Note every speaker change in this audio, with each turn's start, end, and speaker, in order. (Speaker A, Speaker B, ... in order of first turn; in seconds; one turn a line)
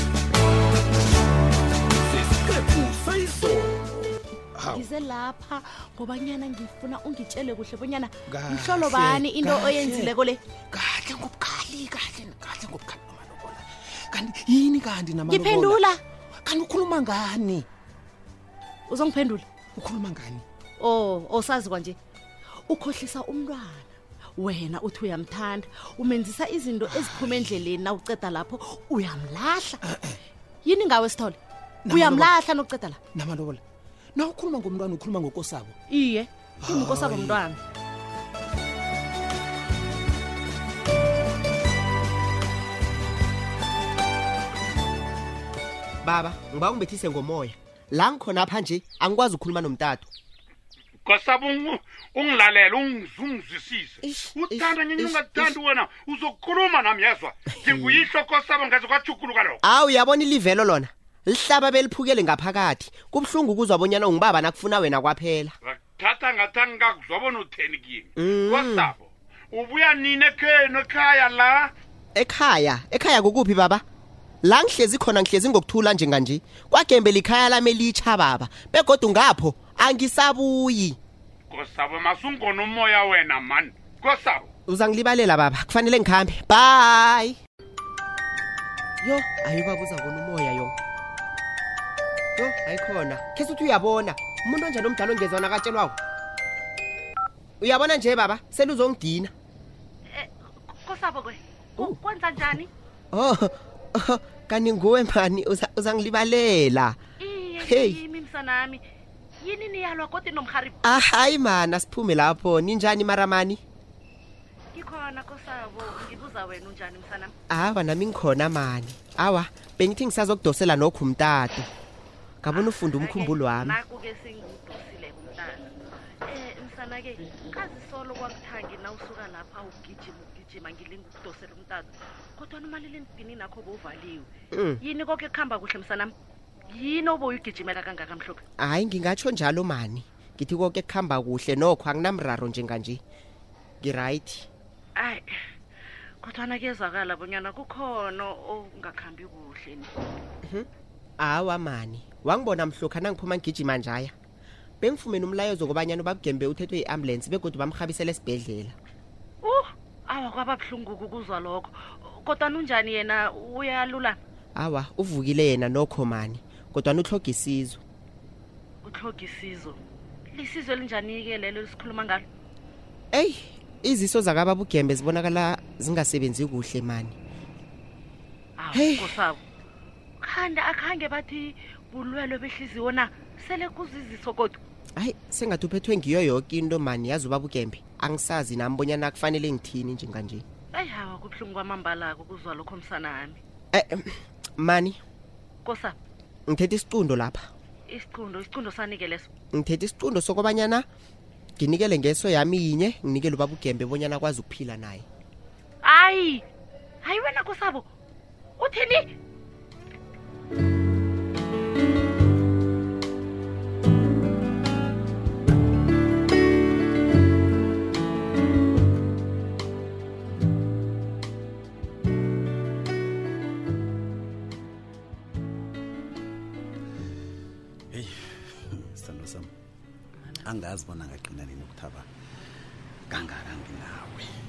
Speaker A: 2.1-4.0
Speaker B: 4.6-10.4
Speaker C: 8.5-10.0
Speaker C: 10.7-15.8
Speaker B: 15.3-16.0
Speaker C: 16.4-17.6
Speaker B: 18.9-19.4
Speaker C: 19.8-20.4
Speaker B: 20.8-22.0
Speaker B: 22.7-29.8
Speaker B: 30.6-33.0
Speaker C: 31.9-32.3
Speaker C: 33.1-33.5
Speaker C: 34.1-34.9
Speaker B: 35.9-37.6
Speaker C: 36.8-37.3
Speaker D: 46.0-50.1
Speaker E: 51.0-59.6
Speaker D: 54.0-55.6
Speaker D: 57.5-58.1
Speaker D: 59.6-65.5
Speaker E: 65.6-71.7
Speaker D: 68.2-68.9
Speaker D: 72.1-73.8
Speaker D: 74.4-81.0
Speaker E: 81.5-84.5
Speaker D: 84.7-87.4
Speaker D: 89.0-90.7
Speaker D: 92.3-96.0
Speaker D: 97.6-99.3
Speaker B: 100.8-102.7
Speaker D: 103.1-107.0
Speaker B: 107.2-108.8
Speaker D: 107.6-108.0
Speaker B: 109.4-110.8
Speaker D: 110.8-113.6
Speaker B: 114.7-117.3
Speaker D: 117.5-121.7
Speaker D: 122.4-123.8
Speaker B: 122.5-125.7
Speaker B: 126.2-134.3
Speaker D: 134.5-134.8
Speaker B: 134.8-136.1
Speaker B: 136.7-138.4
Speaker D: 138.6-143.0
Speaker D: 143.8-144.5
Speaker B: 144.9-145.3
Speaker B: 146.2-149.9
Speaker D: 151.2-154.1
Speaker D: 154.8-158.8
Speaker B: 159.4-164.2
Speaker D: 164.5-167.8
Speaker B: 168.8-169.8
Speaker B: 170.3-172.2
Speaker D: 173.1-177.2
Speaker B: 178.6-179.4
Speaker D: 178.7-179.2
Speaker B: 180.2-184.6
Speaker D: 184.9-190.4
Speaker B: 190.7-193.4
Speaker D: 193.7-195.0
Speaker B: 195.6-195.9
Speaker D: 196.5-197.5
Speaker B: 197.9-199.3
Speaker D: 199.5-200.8
Speaker D: 201.6-205.0
Speaker B: 205.8-206.4
Speaker B: 207.0-207.9
Speaker B: 208.6-209.1
Speaker F: 227.9-229.5
Speaker F: 230.4-232.1
Speaker F: 233.1-234.3